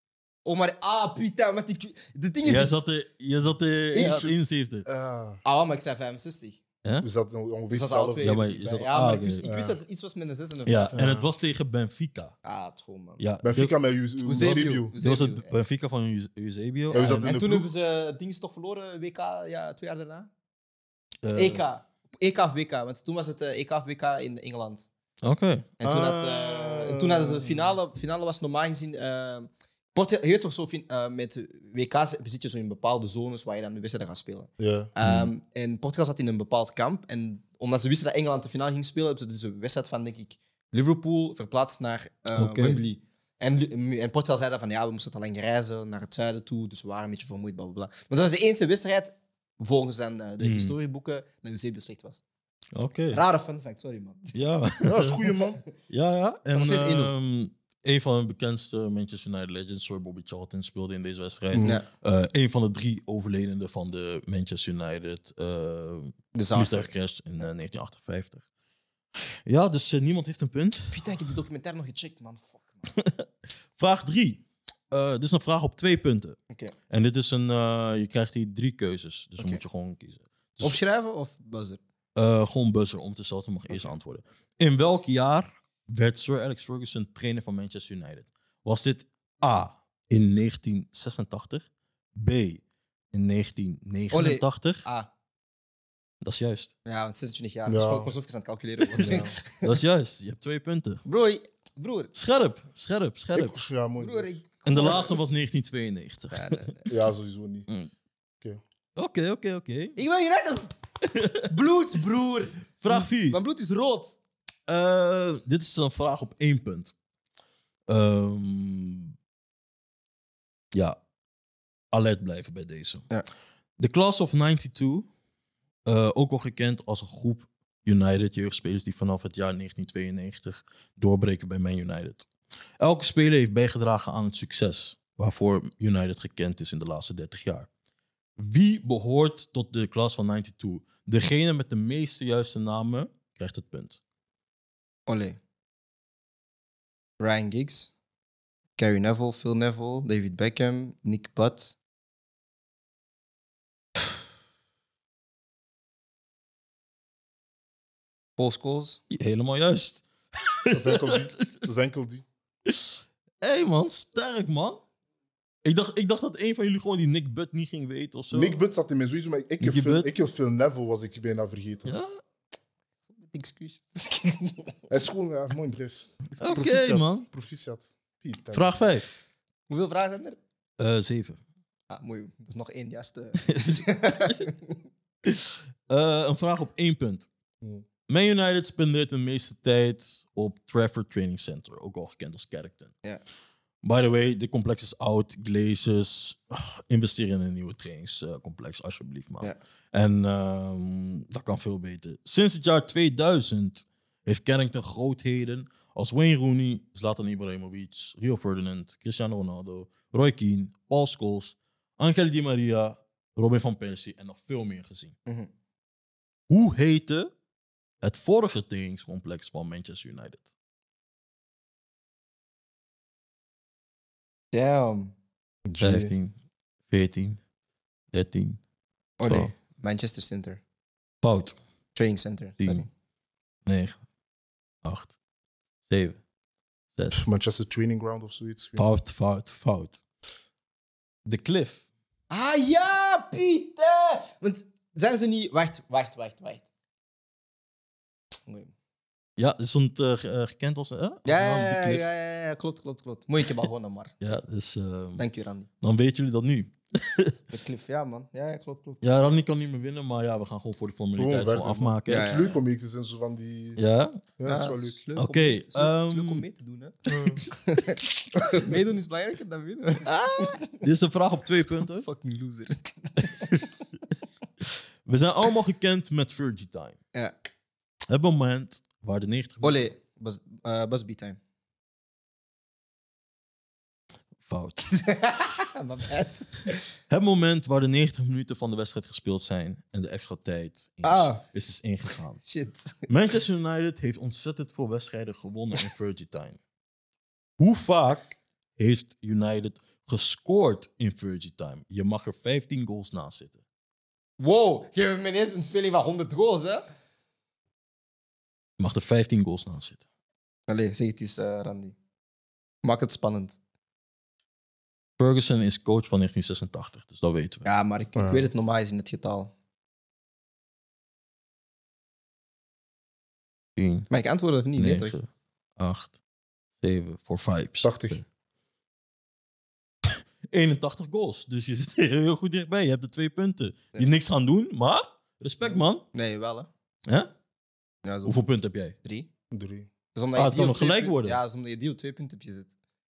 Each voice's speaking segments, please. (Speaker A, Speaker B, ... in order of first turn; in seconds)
Speaker A: 0.5-2.7, 3.9-4.3, 5.4-6.6, 7.7-11.0, 12.4-13.2, 14.2-15.5, 16.9-20.3, 21.3-24.9, 25.8-52.2, 53.1-54.4, 56.5-57.1, 61.6-61.9, 66.3-66.9, 70.9-72.9, 80.6-81.8, 94.1-95.1, 96.8-99.7, 101.0-102.1, 104.0-105.2, 106.3-106.9, 110.0-110.7, 111.5-114.2, 145.1-145.4, 147.2-147.9, 148.8-151.8, 158.4-159.0, 173.1-174.8, 179.7-180.4, 181.9-184.8, 215.3-215.5, 224.5-225.1, 229.2-230.6, 231.9-232.9, 242.3-246.7, 248.4-248.7, 251.3-254.1, 255.2-255.7, 257.5-259.0, 262.1-262.6, 264.4-270.7, 272.0-273.7, 279.6-281.4, 284.9-286.9, 291.0-291.4, 292.4-293.1, 304.4-306.9, 310.7-311.9, 312.8-313.6, 317.6-319.5, 324.1-325.2, 336.1-336.7, 338.0-338.4, 339.0-339.3, 340.1-342.7
Speaker B: 2.4-4.9, 8.2-9.4, 10.7-12.3, 13.2-13.7, 14.4-17.4, 21.2-21.6, 25.2-25.8, 35.0-35.3, 42.4-42.8, 50.4-50.7, 52.7-53.2, 54.3-55.2, 55.9-68.4, 69.5-71.0, 72.9-76.4, 76.9-80.8, 82.1-94.9, 96.2-96.7, 99.0-101.0, 102.1-103.6, 104.6-106.7, 109.0-110.0, 111.0-111.5, 112.8-113.4, 114.7-116.9, 117.9-119.1, 120.7-121.0, 121.9-123.0, 123.8-125.1, 125.9-132.3, 132.8-137.7, 138.4-144.0, 159.1-161.4, 162.7-164.8, 165.6-168.6, 169.6-170.1, 171.8-172.1, 176.4-177.3, 178.5-179.1, 180.8-181.4, 183.5-184.4, 185.2-187.3, 188.1-192.9, 193.8-215.1, 216.5-217.3, 218.0-220.4, 225.8-226.3, 226.9-227.4, 228.1-228.6, 229.2-229.5, 231.2-231.6, 232.6-232.9, 233.7-233.9, 234.8-235.1, 235.9-236.2, 238.8-240.0, 241.2-241.8, 249.4-252.1, 254.2-255.2, 255.8-257.4, 259.0-262.4, 263.8-264.2, 265.1-266.4, 270.1-272.1, 275.1-277.0, 278.1-279.9, 284.4-284.9, 287.1-292.4, 293.1-296.6, 297.6-303.6, 308.8-310.0, 315.2-317.7, 323.8-324.1, 324.8-325.3, 325.8-326.1, 326.8-328.2, 330.0-336.1, 338.3-338.9, 340.4-341.4
Speaker C: 4.0-4.3, 4.8-5.4, 7.0-9.8, 10.9-11.3, 13.4-14.9, 16.9-17.7, 25.8-27.7, 34.6-34.9, 54.8-55.6, 61.5-61.8, 97.7-98.1, 99.0-99.3, 103.3-105.0, 106.9-107.7, 160.7-162.2, 168.3-171.9, 174.9-178.7, 225.7-226.1, 237.1-238.8, 261.2-263.8, 264.4-264.9, 267.1-267.4, 318.2-318.4, 327.8-328.2, 339.5-339.9